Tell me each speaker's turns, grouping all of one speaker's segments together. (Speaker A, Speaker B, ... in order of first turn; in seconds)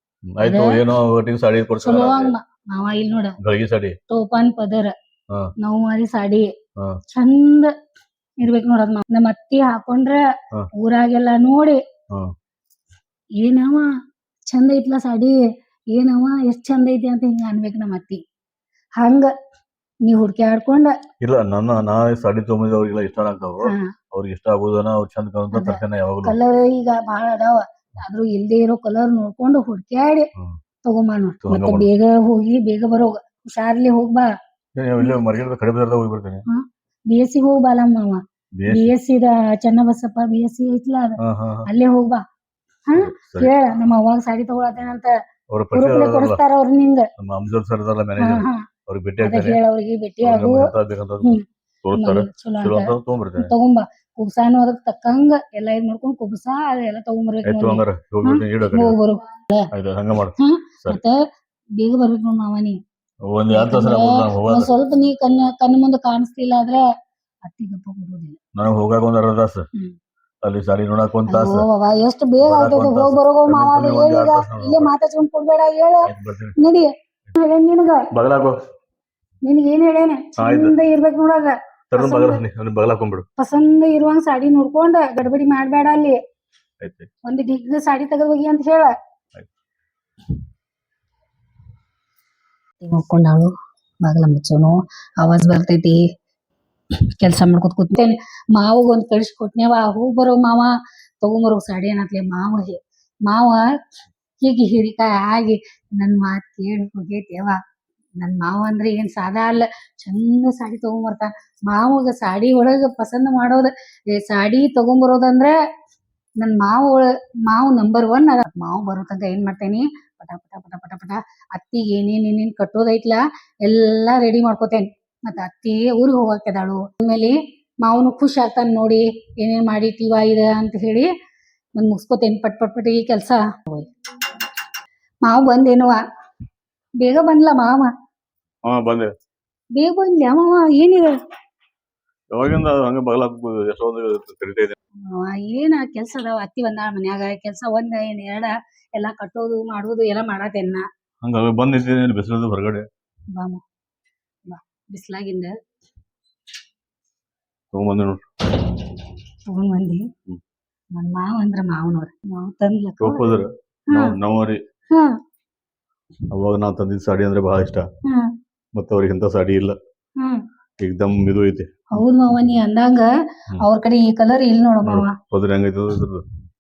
Speaker A: 0.3-2.3, 3.4-4.0, 21.2-26.4, 31.4-31.9, 34.8-36.4, 38.6-38.9, 41.2-41.7, 43.0-43.5, 45.5-46.4, 47.2-49.6, 50.2-53.5, 57.5-59.0, 59.7-61.0, 63.3-64.7, 68.6-69.7, 70.4-71.7, 72.4-74.9, 76.0-76.5, 78.1-78.6, 80.4-80.8, 81.9-83.3, 86.8-87.1, 138.7-139.1, 142.3-144.8, 151.2-152.9, 157.7-158.7, 163.0-164.6, 166.3-167.9, 168.8-169.8, 170.8-171.7, 174.8-176.2
Speaker B: 0.4-0.8, 1.8-3.4, 4.1-4.9, 5.6-6.5, 7.1-7.7, 8.4-10.2, 10.8-11.8, 13.4-13.9, 14.5-15.3, 15.9-18.2, 19.0-19.3, 20.1-20.9, 25.5-30.3, 30.9-34.3, 36.5-41.2, 41.7-42.2, 42.9-45.1, 45.8-47.1, 48.2-48.6, 49.2-50.7, 51.9-59.7, 60.4-61.2, 61.8-62.8, 63.5-66.8, 67.4-68.4, 71.3-76.1, 76.6-78.0, 79.5-82.4, 83.4-86.2, 87.3-88.9, 92.8-93.5, 94.0-96.0, 97.2-100.7, 101.2-103.6, 104.4-107.6, 108.2-115.5, 116.4-131.1, 131.8-133.9, 135.2-136.0, 137.0-137.9, 139.8-141.1, 145.1-150.9, 153.4-153.6, 154.5-155.5, 159.5-160.0, 160.9-163.2, 171.9-173.1, 173.6-175.2